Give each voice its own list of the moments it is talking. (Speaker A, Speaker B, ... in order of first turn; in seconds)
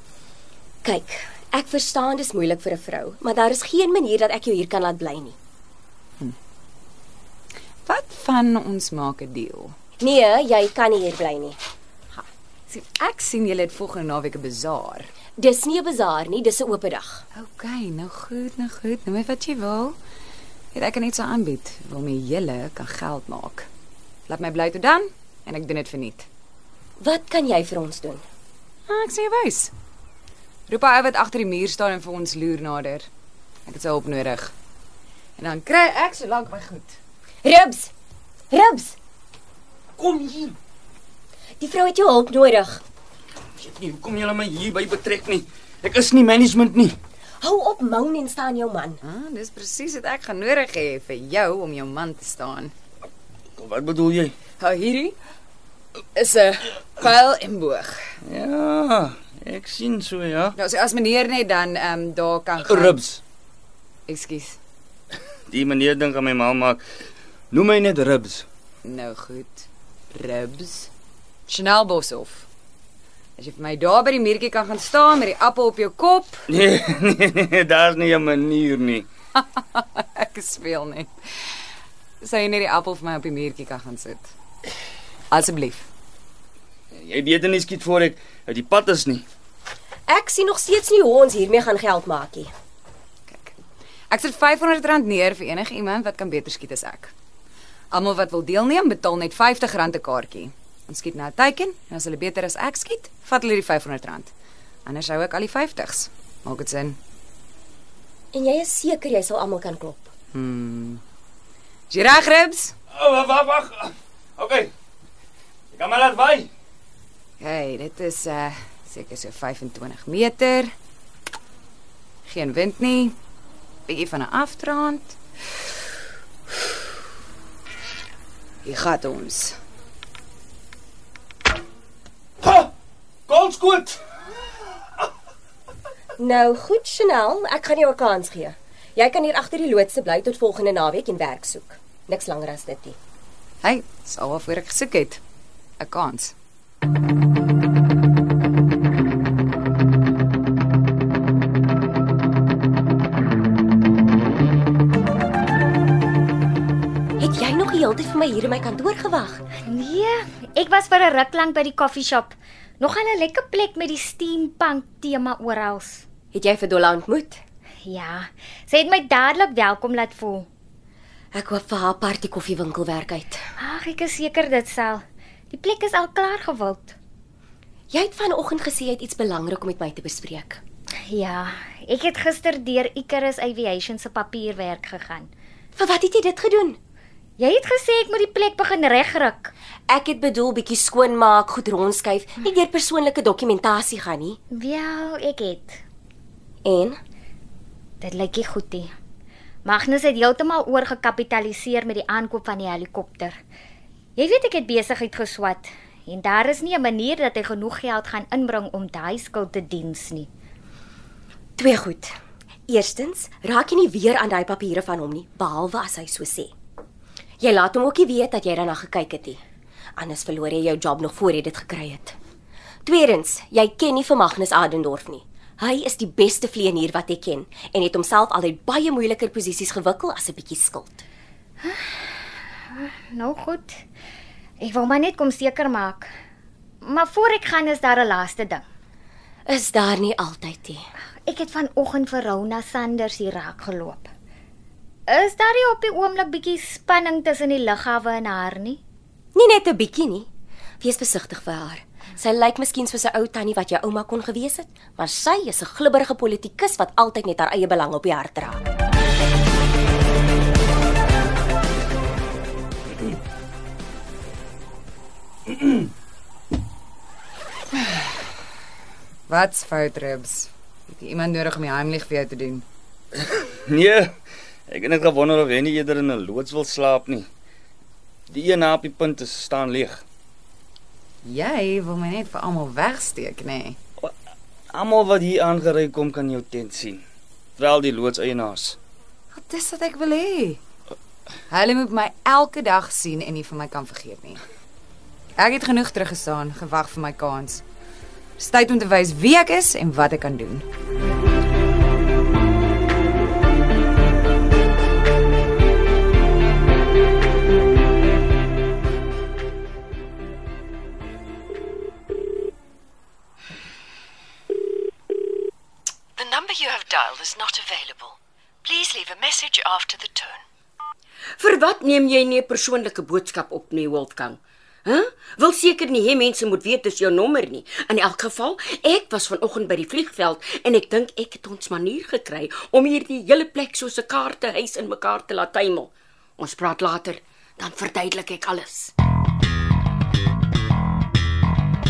Speaker A: 0.8-5.3, 10.0-11.6, 15.4-17.2, 27.0-28.2, 37.4-37.9, 38.5-39.0, 41.6-42.8, 47.4-49.0, 90.1-92.5, 108.3-110.1, 136.2-143.0, 157.2-159.4, 166.3-167.4, 171.3-173.4, 177.9-180.6, 185.8-186.8, 189.9-194.4, 196.6-197.0, 211.6-212.1, 212.7-216.5, 217.4-219.4, 220.0-222.2, 222.8-231.0, 239.5-240.8, 249.3-250.3, 250.8-258.6
Speaker B: 7.8-9.8, 12.2-15.1, 17.3-20.0, 20.7-23.7, 24.3-26.3, 28.9-29.7, 30.7-33.1, 33.6-34.5, 35.4-37.0, 49.0-52.7, 54.6-55.1, 56.1-58.0, 60.5-63.0, 64.1-64.6, 68.8-70.9, 71.5-72.5, 73.4-76.5, 79.4-81.1, 82.2-84.3, 85.3-85.9, 93.3-93.5, 94.1-97.1, 97.9-104.3, 104.8-107.0, 110.3-111.0, 111.9-112.7, 117.4-120.7, 122.2-123.2, 123.9-125.2, 128.6-129.6, 143.6-145.2, 145.8-146.3, 269.3-272.6, 281.2-283.8, 289.3-290.6, 291.5-294.4, 295.4-297.6, 298.4-300.6
Speaker C: 40.0-40.5, 43.6-47.0, 53.6-54.3, 58.2-60.5, 62.6-63.2, 65.5-66.8, 67.5-68.5, 76.5-79.1, 86.9-89.2, 112.9-114.7, 115.7-116.5, 132.4-132.7, 133.3-134.0, 273.1-274.1, 274.7-277.3, 278.3-280.0, 284.7-287.0, 287.6-288.8
Speaker D: 159.6-166.1, 167.8-170.5, 173.6-176.9, 181.1-185.3, 187.4-189.5, 194.5-195.8, 198.0-198.9, 199.6-203.4, 204.2-210.3, 231.6-233.8, 234.6-236.1, 236.8-238.6, 241.2-244.1, 245.1-248.8
Speaker E: 316.2-318.1, 318.6-320.4
Speaker F: 321.4-338.9